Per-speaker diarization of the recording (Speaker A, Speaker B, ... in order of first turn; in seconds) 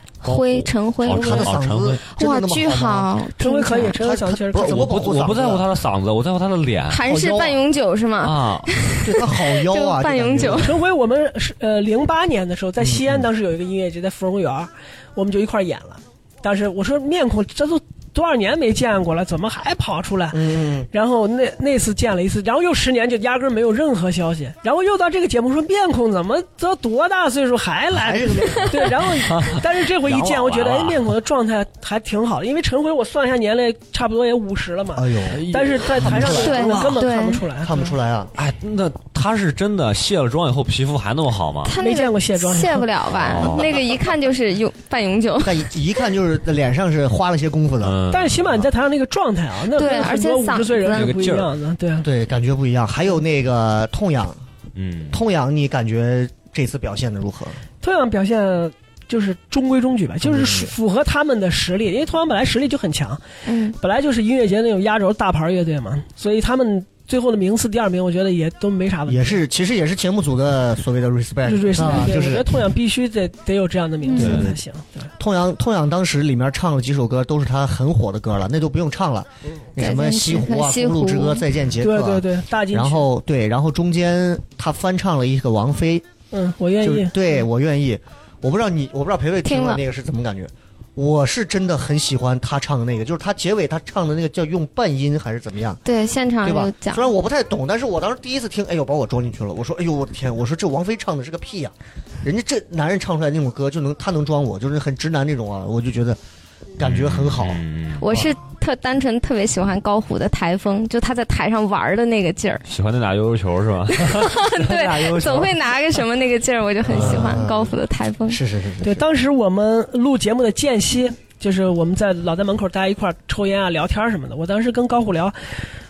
Speaker A: 0.2-1.6, 2.1-4.0, 6.9-10.7, 36.4-37.4, 41.6-45.6, 49.7-51.1, 63.5-63.8, 74.0-74.4, 79.8-81.4, 89.4-89.8, 95.8-97.1, 108.0-112.6, 113.9-118.4
Speaker B: 0.2-2.0, 4.6-7.5, 8.2-8.7, 29.3-31.1, 35.3-36.8, 38.4-41.7, 43.1-43.8, 47.8-48.7, 50.9-51.5, 54.7-55.2, 74.2-74.5, 106.8-108.1, 112.7-115.5, 116.9-117.4
Speaker C: 1.0-3.2, 3.9-5.7, 7.1-7.5, 9.0-10.8, 12.8-13.2, 20.3-20.9, 27.9-28.9, 34.9-35.4, 35.9-37.0, 37.6-38.3, 45.4-48.0, 52.0-54.4, 55.1-57.6, 60.2-60.7, 69.1-72.5, 74.2-74.6, 75.2-86.0, 86.8-95.8, 96.4-106.2, 106.8-108.3, 116.8-117.7, 118.3-119.0
Speaker D: 3.4-5.1, 10.5-37.9, 41.8-42.9, 48.1-52.1, 57.8-63.2, 63.8-69.4, 71.4-75.1, 81.8-83.1, 86.3-87.1, 118.8-125.3